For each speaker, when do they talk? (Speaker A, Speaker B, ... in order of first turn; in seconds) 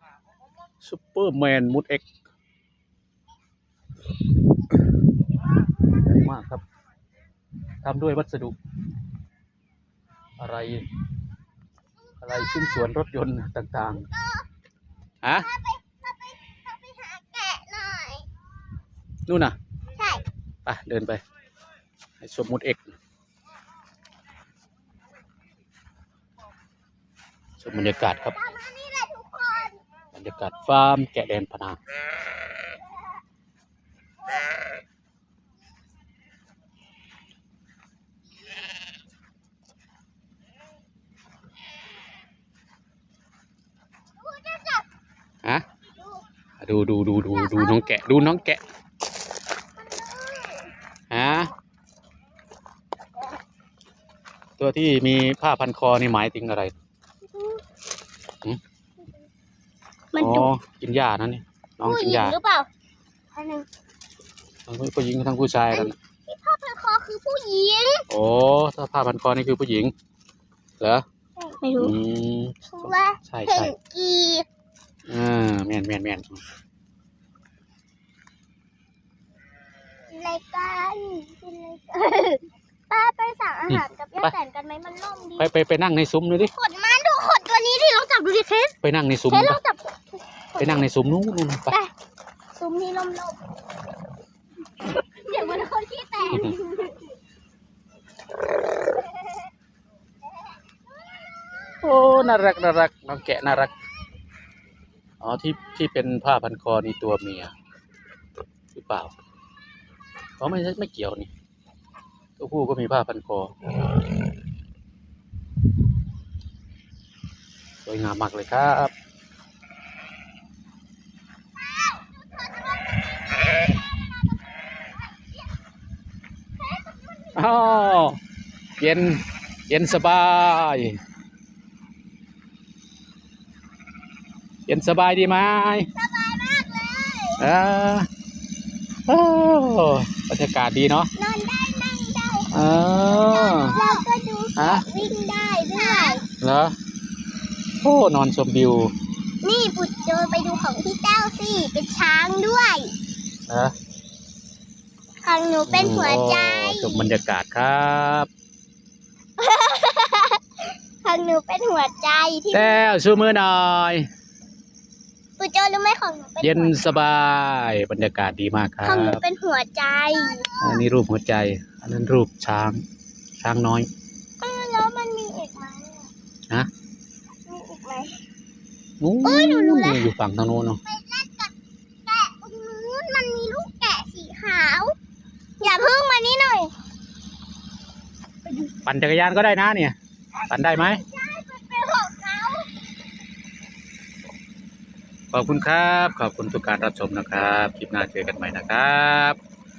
Speaker A: 0.8-2.0, 6.0-6.6, 7.8-8.6, 10.4-10.9, 12.2-14.1, 15.2-15.5, 19.3-19.6, 20.6-21.2, 22.2-22.9, 27.6-28.4, 30.1-31.8, 46.6-48.6, 51.1-51.5, 54.6-56.7, 60.1-62.4, 64.7-65.9, 68.1-69.9, 71.8-73.7, 75.1-76.4, 83.7-84.3, 85.4-86.5, 88.8-89.6, 90.6-91.7, 101.8-103.7, 105.2-107.5, 108.7-109.1, 110.4-111.3, 112.4-113.5, 117.8-118.9, 127.3-128.2, 128.8-131.0, 134.7-135.9, 137.4-138.1, 139.1-141.1, 142.5-143.8, 144.6-144.8, 146.4-146.7, 147.8-148.9, 153.5-153.7, 155.7-158.3, 162.5-164.1, 166.4-169.2, 170.6-172.8, 173.4-173.9, 179.0-180.8, 188.8-189.9, 190.5-191.0, 195.3-199.4
Speaker B: 12.2-12.8, 14.1-14.5, 15.3-18.3, 20.0-20.2, 28.3-29.8, 44.2-44.8, 47.3-48.1, 49.8-50.7, 57.3-57.6, 60.1-60.5, 61.8-62.7, 63.3-63.6, 65.7-68.0, 71.4-71.9, 72.7-74.5, 80.1-85.5, 86.5-88.7, 89.3-89.8, 90.5-90.9, 92.5-93.4, 95.0-97.0, 121.8-123.8, 126.8-127.7, 135.9-137.4, 141.1-142.5, 143.2-146.2, 149.4-152.9, 155.2-157.1, 159.4-162.8, 165.4-166.8, 168.8-170.8, 174.4-176.1, 177.5-178.2, 179.2-180.1, 180.8-181.5, 182.1-184.9, 185.6-186.7, 190.8-192.7